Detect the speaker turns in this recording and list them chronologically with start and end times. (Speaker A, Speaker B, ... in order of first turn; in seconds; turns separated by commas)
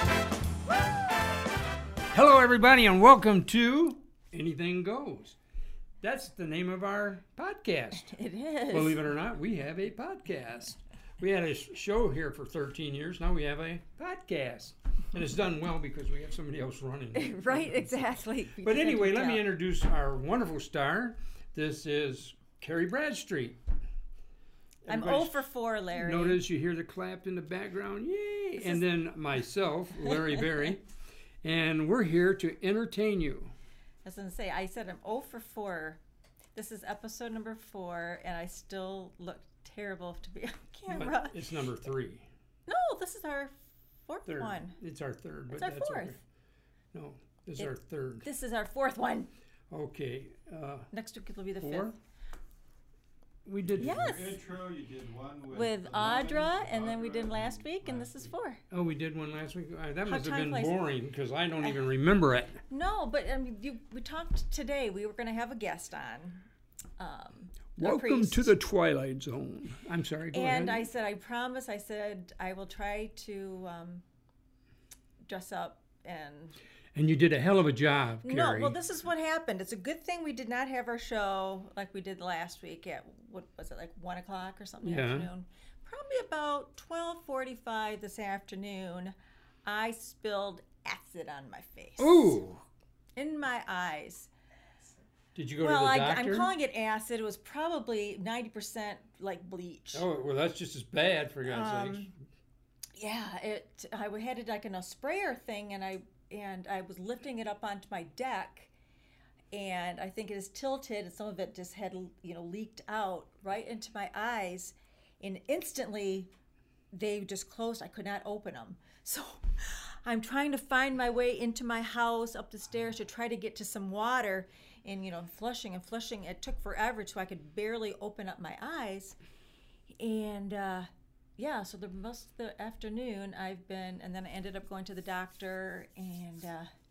Speaker A: 2.1-5.4, Speaker A: 6.0-8.1, Speaker B: 8.1-9.0, Speaker A: 8.7-17.9, Speaker B: 17.1-19.4, Speaker A: 18.6-23.6, Speaker A: 24.8-25.4, Speaker B: 24.9-26.4, Speaker A: 25.9-30.8, Speaker B: 28.6-28.8, Speaker B: 30.0-30.6, Speaker A: 31.4-33.5, Speaker B: 34.0-36.0, Speaker B: 36.5-41.4, Speaker A: 40.9-42.3, Speaker B: 42.7-44.8, Speaker A: 44.2-46.2, Speaker B: 45.5-46.2, Speaker A: 46.9-48.2, Speaker B: 47.6-49.3, Speaker A: 49.7-50.9, Speaker B: 50.9-51.9, Speaker A: 51.6-51.9, Speaker A: 53.4-54.3, Speaker B: 53.8-54.4, Speaker C: 53.8-58.3, Speaker B: 55.5-58.6, Speaker A: 58.7-62.6, Speaker B: 60.0-60.7, Speaker B: 62.7-66.5, Speaker B: 67.0-68.5, Speaker A: 67.8-70.8, Speaker B: 70.3-74.0, Speaker B: 75.3-76.6, Speaker A: 76.9-78.8, Speaker B: 78.2-92.4, Speaker A: 84.8-85.3, Speaker A: 92.0-92.6, Speaker B: 93.2-94.3, Speaker A: 95.3-96.5, Speaker B: 95.6-100.0, Speaker A: 99.9-102.1, Speaker B: 101.4-102.1, Speaker B: 103.0-108.7, Speaker B: 109.5-116.3, Speaker B: 116.9-129.2, Speaker B: 130.0-136.7